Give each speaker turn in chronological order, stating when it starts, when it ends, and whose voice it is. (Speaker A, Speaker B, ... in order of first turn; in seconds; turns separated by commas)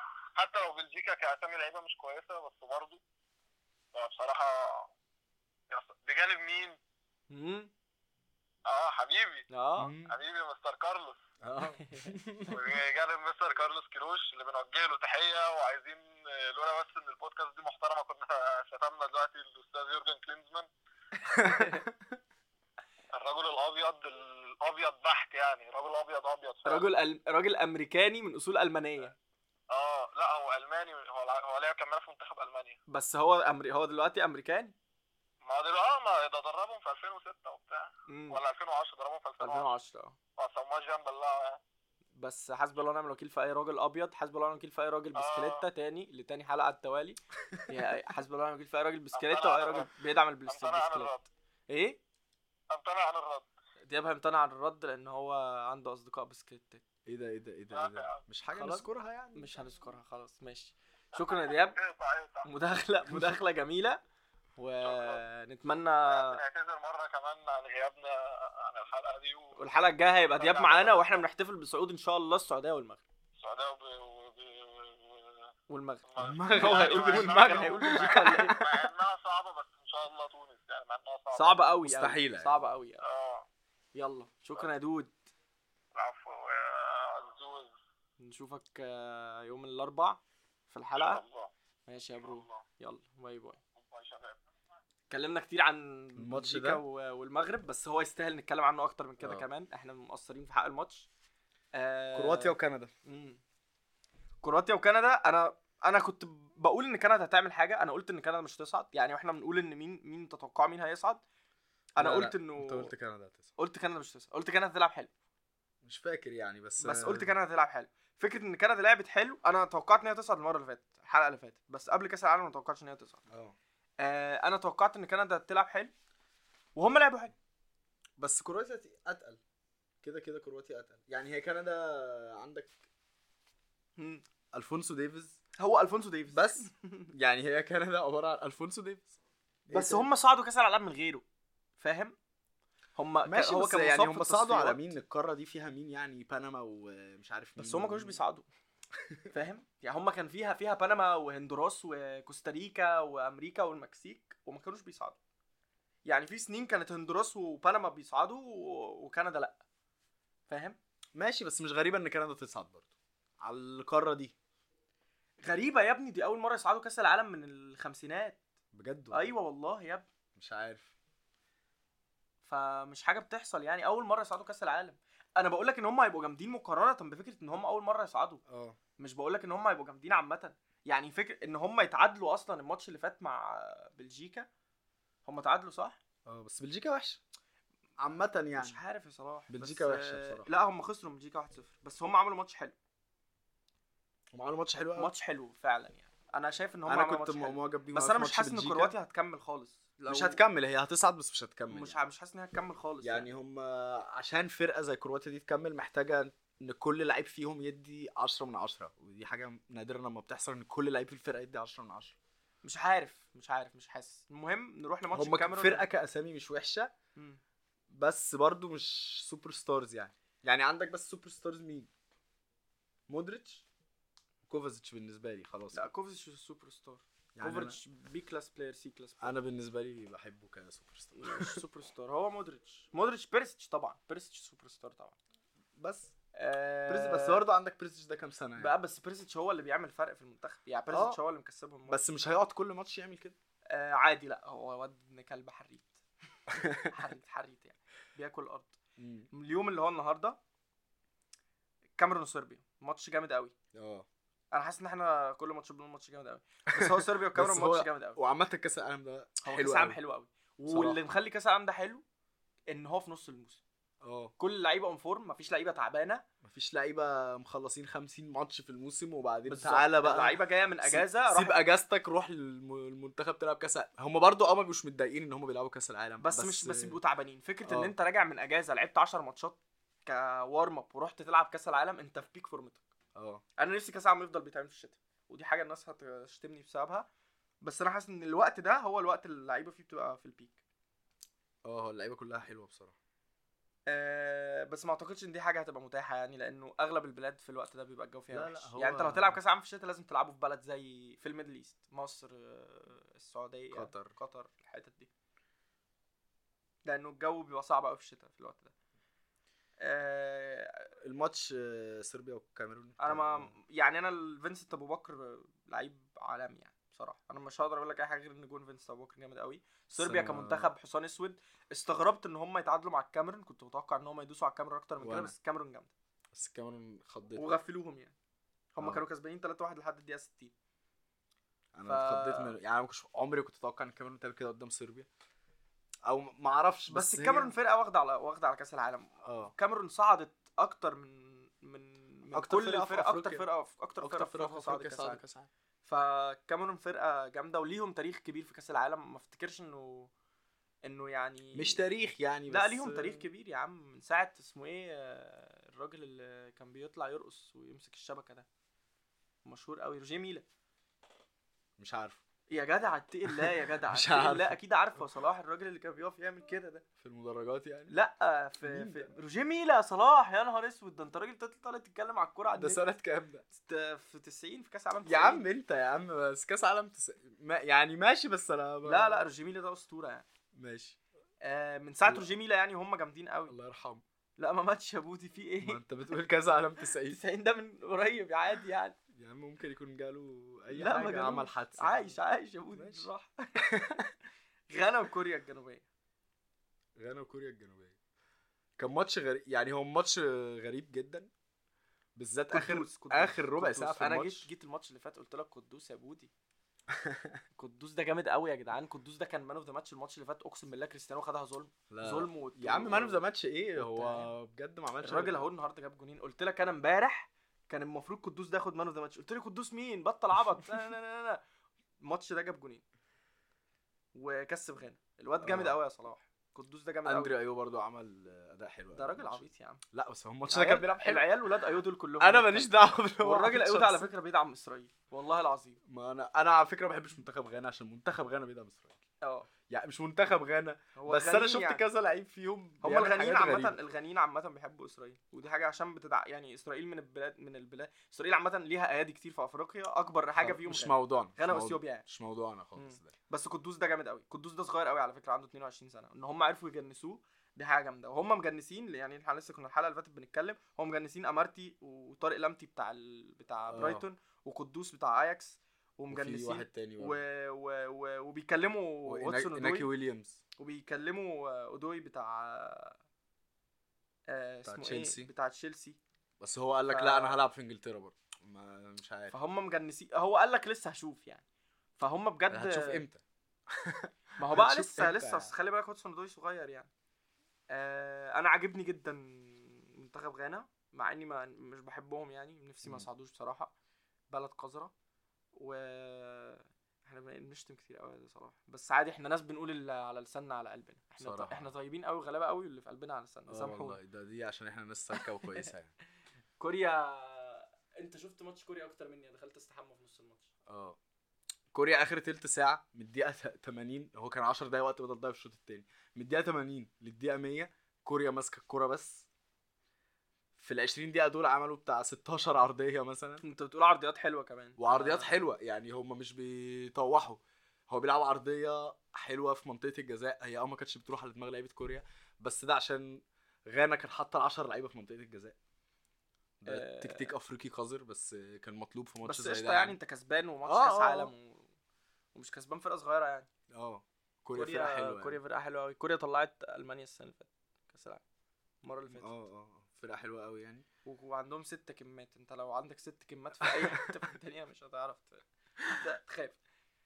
Speaker A: 0.3-3.0, Speaker A: 3.9-4.9, Speaker A: 5.7-6.8, Speaker B: 7.3-7.7, Speaker A: 8.7-9.5, Speaker B: 9.5-9.9, Speaker C: 9.8-10.2, Speaker A: 10.1-11.2, Speaker C: 11.4-12.6, Speaker B: 11.7-12.1, Speaker A: 12.5-20.7, Speaker B: 21.2-21.9, Speaker C: 21.4-21.7, Speaker A: 23.1-26.8, Speaker B: 26.6-29.1, Speaker A: 29.7-32.8, Speaker B: 32.9-34.7, Speaker A: 35.4-39.7, Speaker B: 38.1-38.4, Speaker B: 39.4-40.1, Speaker A: 40.4-41.6, Speaker B: 42.1-51.1, Speaker A: 45.1-45.6, Speaker A: 49.1-49.9, Speaker A: 50.5-51.3, Speaker B: 51.7-52.0, Speaker A: 52.7-53.5, Speaker B: 53.9-56.8, Speaker C: 57.0-59.5, Speaker A: 57.7-58.2, Speaker B: 58.5-61.8, Speaker A: 61.1-62.5, Speaker B: 62.4-64.0, Speaker C: 63.1-63.3, Speaker B: 64.6-66.4, Speaker A: 64.8-65.2, Speaker A: 66.1-69.6, Speaker B: 69.6-73.0, Speaker A: 70.3-71.2, Speaker A: 73.4-75.5, Speaker B: 75.7-78.8, Speaker A: 76.1-81.7, Speaker C: 76.2-78.6, Speaker B: 81.3-83.0, Speaker C: 81.8-82.7, Speaker A: 83.0-83.5, Speaker B: 83.9-85.1, Speaker A: 85.9-87.7, Speaker B: 88.2-91.2, Speaker A: 91.0-91.5, Speaker B: 91.9-93.6, Speaker A: 92.2-92.6, Speaker A: 93.8-94.4, Speaker B: 95.1-101.1, Speaker C: 96.2-96.8, Speaker C: 99.2-99.5, Speaker B: 101.7-103.4, Speaker C: 102.1-102.9, Speaker B: 104.4-111.2, Speaker B: 112.0-112.9, Speaker C: 112.0-113.5, Speaker B: 113.6-115.1, Speaker C: 115.8-117.3, Speaker B: 116.8-123.2, Speaker C: 123.3-123.5, Speaker B: 124.0-125.9, Speaker B: 126.8-127.3, Speaker C: 128.2-129.4, Speaker C: 130.0-132.8, Speaker B: 134.0-134.2, Speaker C: 134.5-135.4, Speaker B: 135.6-137.1, Speaker C: 136.3-139.1, Speaker C: 139.7-140.1, Speaker B: 139.7-141.2, Speaker B: 141.8-142.2, Speaker B: 142.9-144.9, Speaker C: 143.2-148.2, Speaker B: 147.6-148.4, Speaker B: 149.3-155.2, Speaker B: 156.0-159.6, Speaker B: 160.5-160.8, Speaker C: 161.1-162.9, Speaker C: 163.4-164.3, Speaker B: 165.4-168.4, Speaker C: 168.7-169.3, Speaker B: 169.1-170.1, Speaker C: 170.3-170.9, Speaker B: 172.4-178.4, Speaker C: 178.5-178.8, Speaker B: 179.0-184.5, Speaker B: 185.2-186.0, Speaker C: 186.2-187.2, Speaker C: 188.0-188.8, Speaker B: 188.5-192.8, Speaker C: 189.5-190.5, Speaker C: 194.3-195.1, Speaker B: 194.9-200.4, Speaker C: 196.8-198.9, Speaker C: 200.1-202.0, Speaker B: 201.7-203.3, Speaker C: 203.0-212.1, Speaker B: 212.6-215.9, Speaker C: 215.1-216.9, Speaker C: 217.9-221.9, Speaker C: 223.1-223.6, Speaker C: 224.5-225.9, Speaker B: 225.7-229.3, Speaker C: 227.3-227.8, Speaker C: 229.2-231.6, Speaker B: 231.2-235.2, Speaker C: 235.8-236.1, Speaker B: 236.3-237.4, Speaker C: 236.9-238.7, Speaker B: 238.6-242.0, Speaker C: 240.9-241.2, Speaker C: 241.9-243.3, Speaker B: 243.7-245.9, Speaker B: 246.5-248.8, Speaker C: 246.5-246.9, Speaker C: 249.0-249.3, Speaker B: 249.3-250.4, Speaker B: 252.0-253.5, Speaker C: 253.7-254.1, Speaker B: 254.5-258.2, Speaker C: 256.7-260.0, Speaker B: 259.4-262.0, Speaker C: 260.7-261.0, Speaker B: 262.7-263.6, Speaker C: 264.0-264.3, Speaker B: 264.4-266.2, Speaker C: 266.4-277.0, Speaker B: 269.5-271.6, Speaker B: 276.2-282.8, Speaker C: 277.6-277.9, Speaker C: 283.1-283.4, Speaker B: 283.6-287.1, Speaker B: 287.6-290.6, Speaker C: 291.6-292.9, Speaker B: 293.9-305.1, Speaker C: 298.3-299.4, Speaker C: 303.7-304.1, Speaker B: 306.9-308.7, Speaker B: 309.8-310.9, Speaker C: 311.0-313.5, Speaker B: 313.0-325.9, Speaker C: 319.9-320.7, Speaker C: 325.0-325.3, Speaker C: 326.3-327.6, Speaker B: 327.4-328.1, Speaker B: 328.7-330.5, Speaker C: 328.8-329.0, Speaker C: 331.7-335.1, Speaker B: 331.8-332.6, Speaker C: 336.0-337.5, Speaker B: 336.9-345.2, Speaker C: 339.2-339.5, Speaker C: 342.3-343.4, Speaker C: 344.0-345.5, Speaker B: 345.8-350.1, Speaker B: 350.8-351.8, Speaker C: 351.5-353.3, Speaker B: 352.5-358.4, Speaker B: 359.4-360.4, Speaker C: 361.8-362.2, Speaker B: 362.5-366.8, Speaker C: 363.3-364.6, Speaker C: 367.0-368.0, Speaker B: 367.9-372.8, Speaker C: 368.6-369.1, Speaker C: 372.5-373.4, Speaker B: 373.5-375.5, Speaker C: 375.1-379.3, Speaker B: 378.8-380.3, Speaker C: 380.5-381.0, Speaker B: 381.4-383.6, Speaker C: 383.5-384.0, Speaker B: 384.4-385.8, Speaker C: 385.6-387.2, Speaker B: 387.0-389.0, Speaker C: 389.1-392.2, Speaker B: 390.7-394.1, Speaker C: 392.7-393.1, Speaker B: 394.7-395.8, Speaker C: 396.9-397.9, Speaker C: 398.8-401.3, Speaker C: 402.1-404.5, Speaker B: 402.5-406.3, Speaker C: 406.9-407.4, Speaker B: 407.6-413.2, Speaker C: 411.9-415.5, Speaker B: 413.8-414.3, Speaker B: 415.0-421.4, Speaker B: 422.0-422.8, Speaker B: 424.1-427.4, Speaker C: 425.4-425.8, Speaker C: 427.0-431.3, Speaker B: 428.9-429.8, Speaker B: 430.5-435.8, Speaker C: 432.2-434.1, Speaker C: 435.8-439.0, Speaker B: 439.2-439.5, Speaker C: 439.7-443.8, Speaker B: 440.9-441.9, Speaker B: 442.8-452.1, Speaker C: 450.4-453.1, Speaker B: 452.8-469.9, Speaker C: 463.7-464.1, Speaker C: 466.1-467.2, Speaker C: 469.1-470.4, Speaker B: 470.6-473.0, Speaker B: 474.3-476.0, Speaker C: 474.6-475.3, Speaker C: 476.4-479.3, Speaker B: 476.9-477.4, Speaker B: 479.3-481.4, Speaker B: 482.0-483.0, Speaker C: 482.5-485.5, Speaker B: 484.4-486.9, Speaker B: 487.7-493.7, Speaker B: 494.3-494.9, Speaker B: 495.6-504.0, Speaker C: 501.2-501.7, Speaker C: 503.5-505.9, Speaker B: 505.1-505.7, Speaker B: 506.6-510.5, Speaker C: 510.7-511.0, Speaker C: 511.7-519.3, Speaker C: 520.6-523.4, Speaker B: 523.4-525.3, Speaker C: 524.8-535.5, Speaker C: 536.6-540.0, Speaker B: 536.6-537.3, Speaker B: 539.2-541.7, Speaker C: 540.7-541.3, Speaker B: 542.3-543.5, Speaker C: 543.7-545.4, Speaker B: 544.5-548.2, Speaker B: 548.8-549.3, Speaker C: 549.1-550.8, Speaker B: 551.0-556.6, Speaker C: 553.6-553.9